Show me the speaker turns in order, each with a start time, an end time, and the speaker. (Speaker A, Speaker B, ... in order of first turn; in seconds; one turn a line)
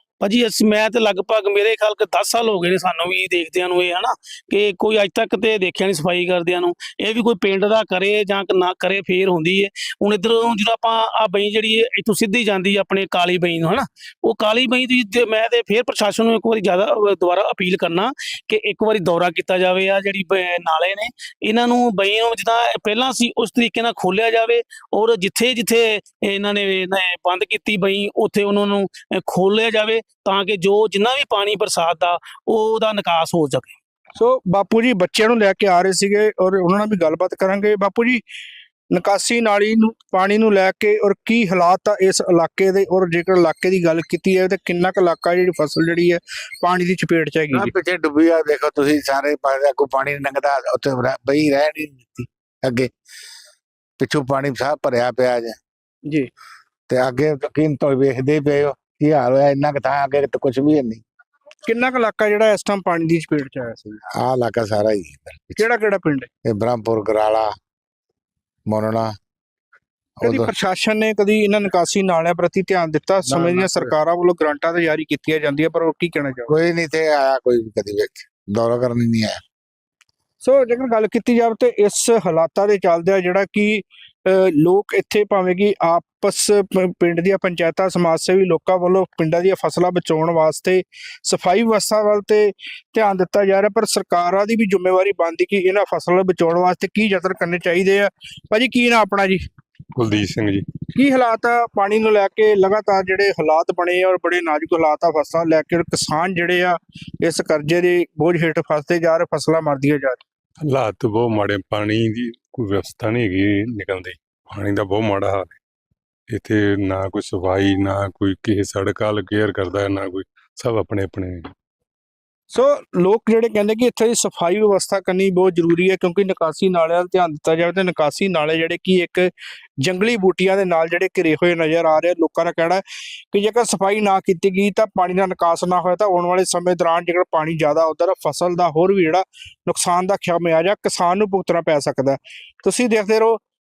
Speaker A: 0.2-33.7
Speaker B: 34.2-38.2
Speaker B: 38.9-47.7
Speaker C: 47.5-52.9
Speaker C: 54.0-55.6
Speaker C: 56.9-61.0
Speaker B: 61.6-64.0
Speaker C: 64.1-65.6
Speaker B: 65.6-66.3
Speaker C: 66.4-67.5
Speaker C: 68.7-69.1
Speaker C: 70.2-70.5
Speaker B: 70.2-76.5
Speaker C: 73.2-73.9
Speaker C: 76.5-79.4
Speaker B: 80.4-99.4
Speaker D: 100.0-100.7
Speaker B: 100.9-110.2
Speaker D: 110.6-115.5
Speaker D: 116.3-121.5
Speaker B: 122.5-143.4